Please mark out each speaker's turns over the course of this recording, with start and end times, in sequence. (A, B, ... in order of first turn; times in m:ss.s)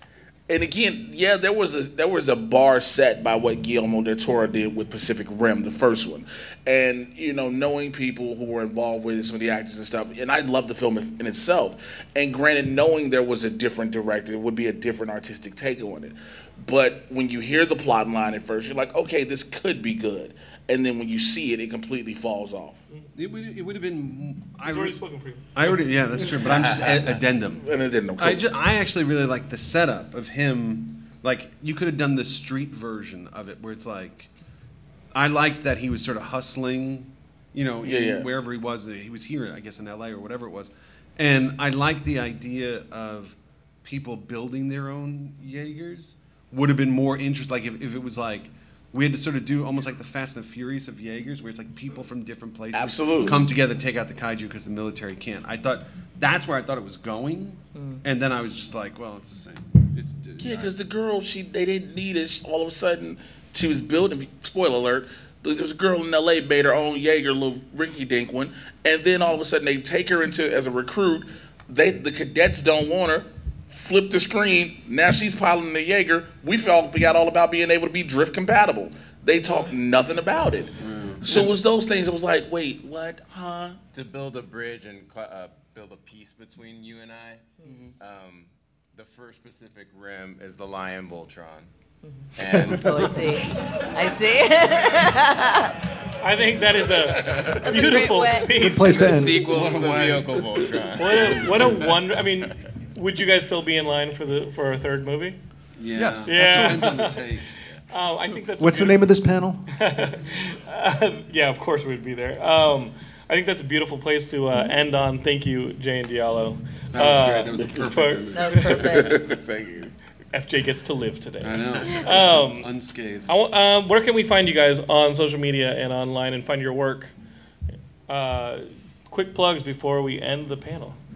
0:00.5-0:22.8 A
0:23.2-0:25.0 B
0:24.6-0:26.0 C
0:25.5-0:34.3 B
0:26.4-0:28.5 A
0:35.1-1:00.7 B
0:37.8-0:38.3 A
0:52.7-0:53.5 A
0:57.8-0:58.0 D
1:00.4-1:23.8 A
1:19.4-1:19.7 D
1:20.8-1:21.2 B
1:23.9-1:27.4 E
1:27.7-1:27.9 A
1:28.0-1:31.7 E
1:32.0-1:35.8 D
1:32.4-1:33.5 E
1:36.2-1:39.3 C
1:37.2-1:37.8 E
1:37.4-1:38.5 D
1:38.6-1:39.4 F
1:38.8-1:41.8 E
1:39.4-1:40.9 B
1:40.9-1:45.4 C
1:41.4-1:41.7 B
1:45.8-1:47.5 B
1:45.9-1:47.0 F
1:46.2-1:49.1 C
1:48.6-1:49.7 F
1:49.7-1:58.8 C
1:56.9-1:59.0 B
1:58.3-1:59.2 D
1:58.7-1:59.9 A
2:00.3-2:02.7 C
2:01.4-2:03.3 B
2:03.3-2:07.1 C
2:08.1-2:11.0 C